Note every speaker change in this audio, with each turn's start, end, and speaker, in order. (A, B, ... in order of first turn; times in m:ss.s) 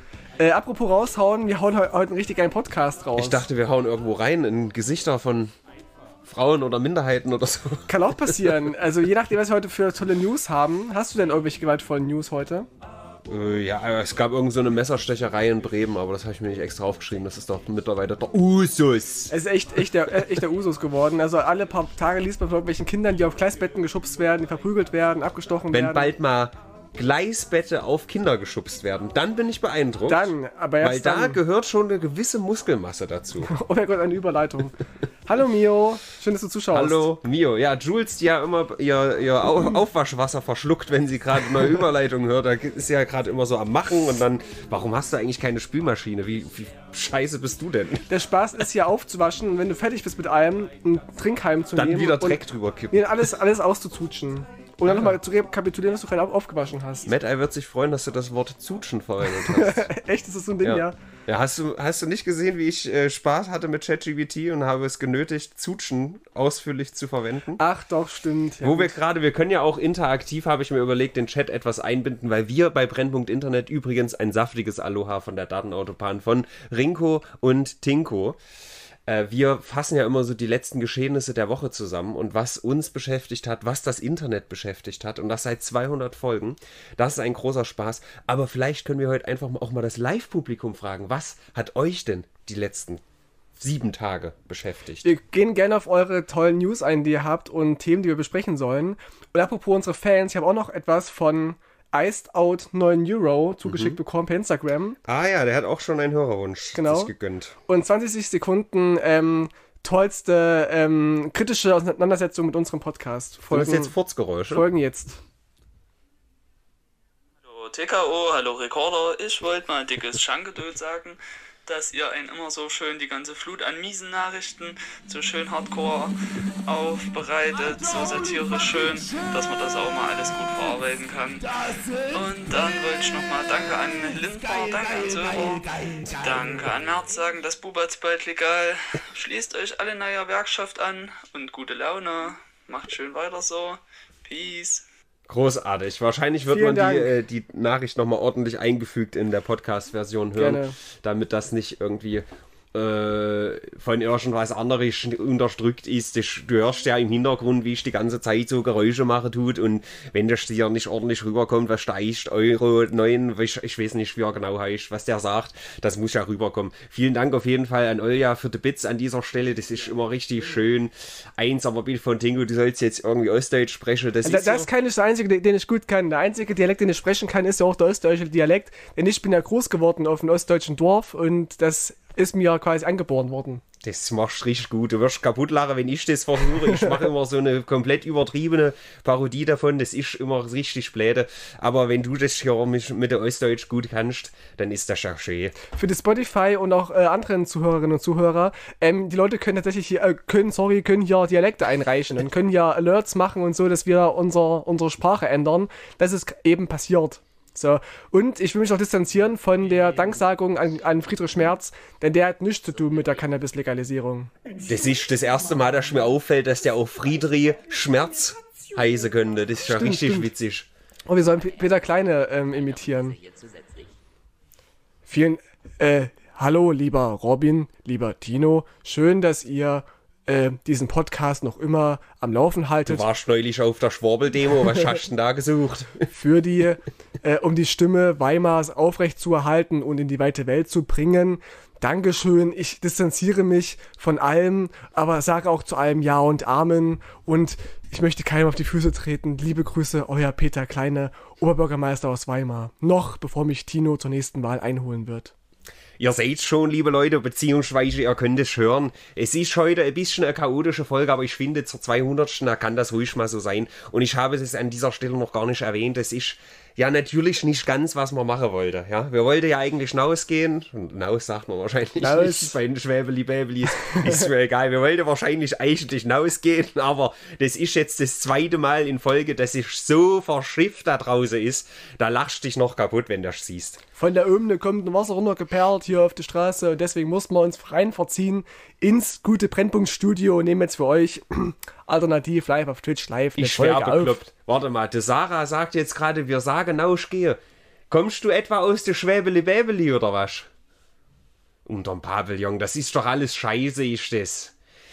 0:00.4-0:03.4 A
0:03.2-0:05.5 B
0:06.2-0:08.6 B
0:07.9-0:12.7 A
0:13.3-0:19.3 B
0:19.3-0:26.1 A
0:25.7-0:33.5 B
0:30.1-0:31.4 A
0:33.5-0:37.1 A
0:36.7-0:48.1 B
0:48.1-0:57.1 A
0:51.8-0:53.3 B
0:54.9-0:55.1 B
0:57.1-0:59.9 B
0:59.3-1:01.0 A
1:00.6-1:07.6 B
1:07.6-1:09.0 A
1:08.6-1:18.4 B
1:19.1-1:33.0 B
1:33.6-1:35.1 B
1:35.0-1:45.0 A
1:43.6-1:44.0 B
1:45.0-1:47.6 B
1:46.7-1:47.1 A
1:47.7-1:53.9 A
1:53.5-1:54.7 B
1:54.5-1:55.2 A
1:57.4-2:06.1 C
2:06.6-2:11.5 C
2:12.0-2:24.8 C
2:25.3-2:54.7 B
2:26.5-2:27.1 A
2:30.4-2:30.8 A
2:54.2-3:03.6 A
3:03.8-3:15.6 B
3:15.7-3:34.3 A
3:34.7-3:40.7 B
3:39.7-3:40.3 A
3:41.1-3:43.2 A
3:45.1-3:53.0 A
3:52.9-3:56.1 B
3:56.1-4:15.3 A
4:16.0-4:43.8 B
4:32.0-4:32.6 A
4:33.9-4:34.2 A
4:44.0-4:54.2 A
4:53.4-5:00.5 B
5:01.7-5:04.5 B